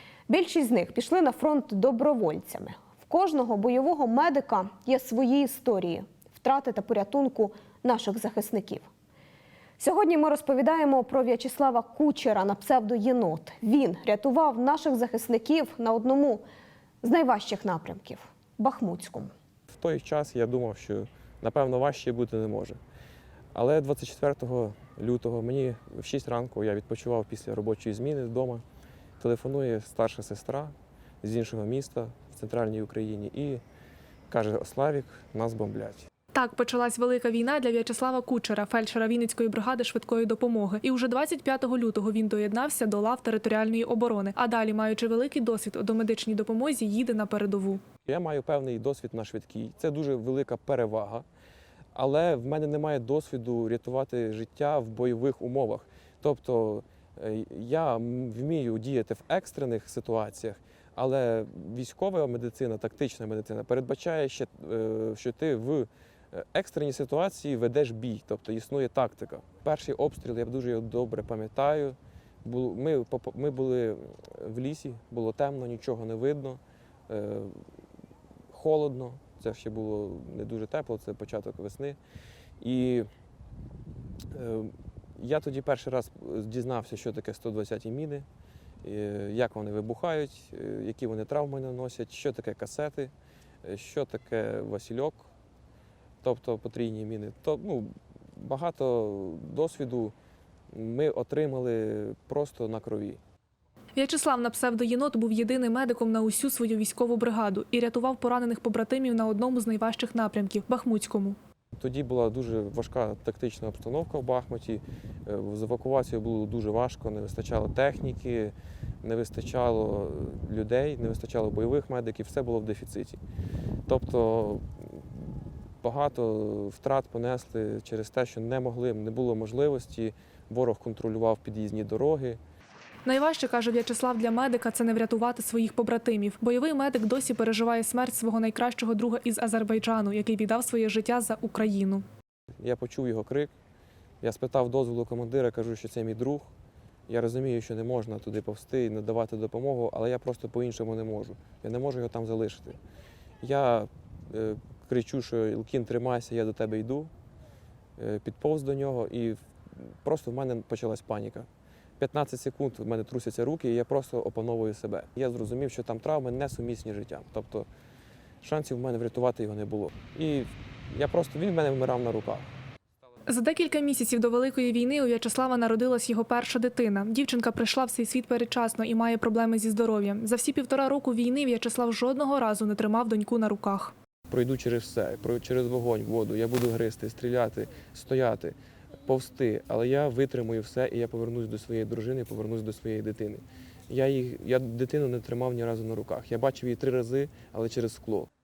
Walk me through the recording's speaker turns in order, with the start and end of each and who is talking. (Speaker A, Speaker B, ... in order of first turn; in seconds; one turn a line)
Speaker A: 0.3-8.9
Speaker A: 9.8-16.4
Speaker A: 17.0-19.3
Speaker B: 19.7-22.8
Speaker B: 23.5-28.6
Speaker B: 29.2-33.6
Speaker B: 34.3-36.0
Speaker C: 36.3-47.8
Speaker B: 48.0-51.2
Speaker B: 51.9-77.6
Speaker B: 78.5-82.0
Speaker B: 82.6-83.1
Speaker B: 84.3-88.2
Speaker B: 88.8-93.1
Speaker B: 93.6-95.3
Speaker B: 96.2-100.1
Speaker B: 100.7-103.2
Speaker C: 103.9-111.4
Speaker B: 111.8-123.2
Speaker B: 123.9-125.3
Speaker B: 125.8-132.4
Speaker C: 133.0-142.0
Speaker B: 142.6-143.5
Speaker B: 144.2-146.5
Speaker B: 147.1-152.8
Speaker B: 153.4-157.1
Speaker B: 158.0-161.5
Speaker B: 162.0-167.7
Speaker B: 168.4-172.5
Speaker C: 173.3-183.9
Speaker B: 184.3-198.3